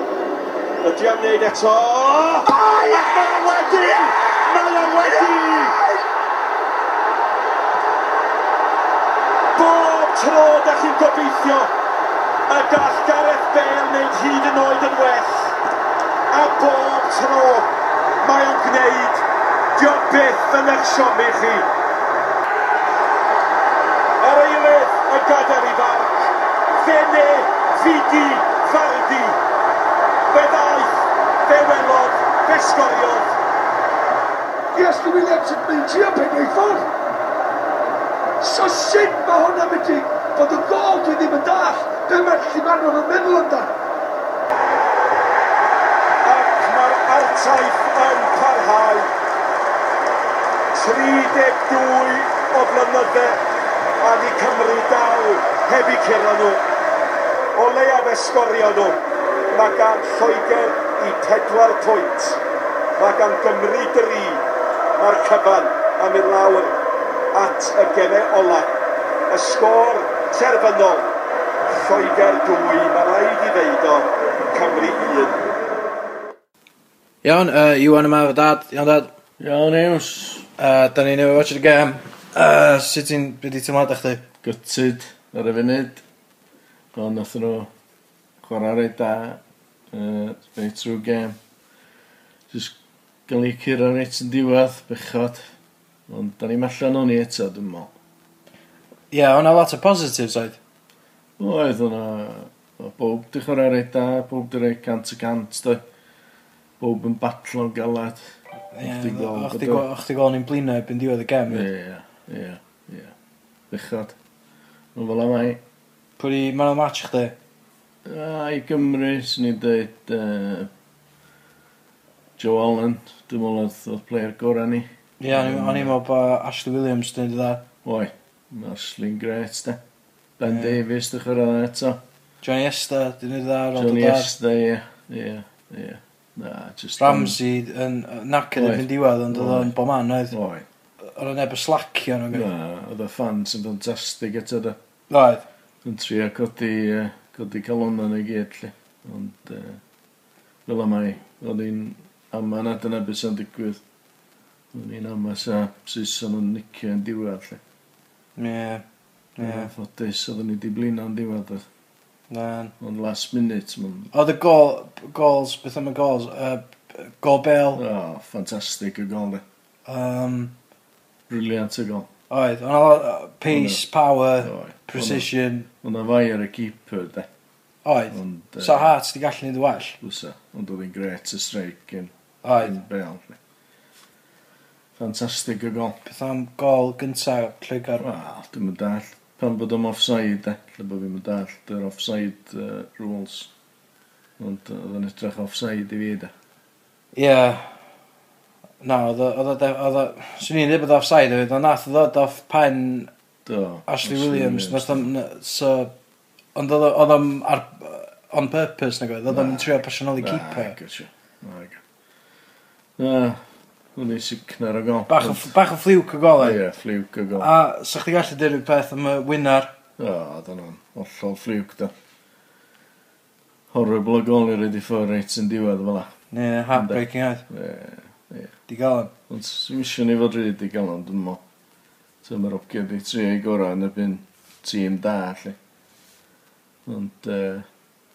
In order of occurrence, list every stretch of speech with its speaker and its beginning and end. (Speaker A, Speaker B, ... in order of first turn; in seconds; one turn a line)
Speaker A: 0.8-5.7
Speaker B: 2.5-2.9
Speaker A: 9.5-11.7
Speaker A: 12.5-15.5
Speaker A: 16.3-17.7
Speaker A: 18.2-19.2
Speaker A: 19.8-21.7
Speaker A: 24.2-26.2
Speaker A: 26.7-29.4
Speaker A: 30.3-30.9
Speaker A: 31.4-33.3
Speaker B: 34.7-36.9
Speaker B: 38.4-43.7
Speaker A: 46.2-49.1
Speaker A: 50.7-53.4
Speaker A: 54.0-56.6
Speaker A: 57.5-59.0
Speaker A: 59.5-62.4
Speaker A: 63.0-64.4
Speaker A: 65.0-66.7
Speaker A: 67.3-68.7
Speaker A: 69.3-71.1
Speaker A: 71.7-75.4
Speaker C: 77.2-79.1
Speaker D: 79.4-80.5
Speaker C: 80.6-84.3
Speaker D: 84.4-86.0
Speaker D: 87.0-87.7
Speaker D: 88.4-89.4
Speaker D: 89.9-91.3
Speaker D: 92.5-92.8
Speaker D: 93.3-95.4
Speaker D: 96.1-97.9
Speaker C: 99.1-100.6
Speaker D: 101.4-105.8
Speaker D: 106.8-108.2
Speaker C: 108.7-111.7
Speaker D: 108.8-109.9
Speaker D: 111.5-113.1
Speaker D: 113.7-114.2
Speaker D: 115.0-115.6
Speaker C: 116.2-117.3
Speaker D: 118.0-120.7
Speaker D: 122.4-126.0
Speaker C: 125.2-127.7
Speaker D: 127.8-129.8
Speaker D: 130.4-132.0
Speaker C: 132.4-134.3
Speaker D: 133.7-137.4
Speaker C: 137.0-140.3
Speaker D: 138.5-139.8
Speaker D: 140.3-140.6
Speaker C: 141.2-142.5
Speaker D: 142.3-144.8
Speaker C: 145.1-145.4
Speaker D: 145.8-149.8
Speaker D: 150.7-153.8
Speaker D: 154.7-157.6
Speaker C: 158.4-158.8
Speaker C: 159.4-159.7
Speaker D: 159.4-161.6
Speaker C: 162.3-162.7
Speaker D: 162.8-164.1
Speaker C: 164.1-167.8
Speaker D: 167.7-169.4
Speaker C: 169.9-170.5
Speaker D: 171.3-172.1
Speaker C: 172.3-175.7
Speaker D: 173.4-177.3
Speaker C: 177.8-180.0
Speaker D: 178.1-178.9
Speaker D: 180.0-183.4
Speaker C: 182.4-182.8
Speaker D: 185.0-186.0
Speaker C: 186.1-188.0
Speaker D: 188.0-193.5
Speaker D: 194.4-196.3
Speaker C: 197.1-197.6
Speaker C: 198.8-203.1
Speaker D: 203.4-205.1
Speaker C: 203.9-205.9
Speaker C: 206.6-210.8
Speaker D: 209.3-211.8
Speaker D: 213.0-213.4
Speaker D: 213.9-215.6
Speaker C: 215.1-216.6
Speaker D: 216.3-217.6
Speaker C: 217.4-219.7
Speaker D: 220.0-221.9
Speaker D: 223.7-226.1
Speaker C: 226.3-227.4
Speaker D: 226.7-228.6
Speaker C: 228.7-229.1
Speaker D: 229.3-231.4
Speaker D: 232.2-235.6
Speaker D: 236.9-237.6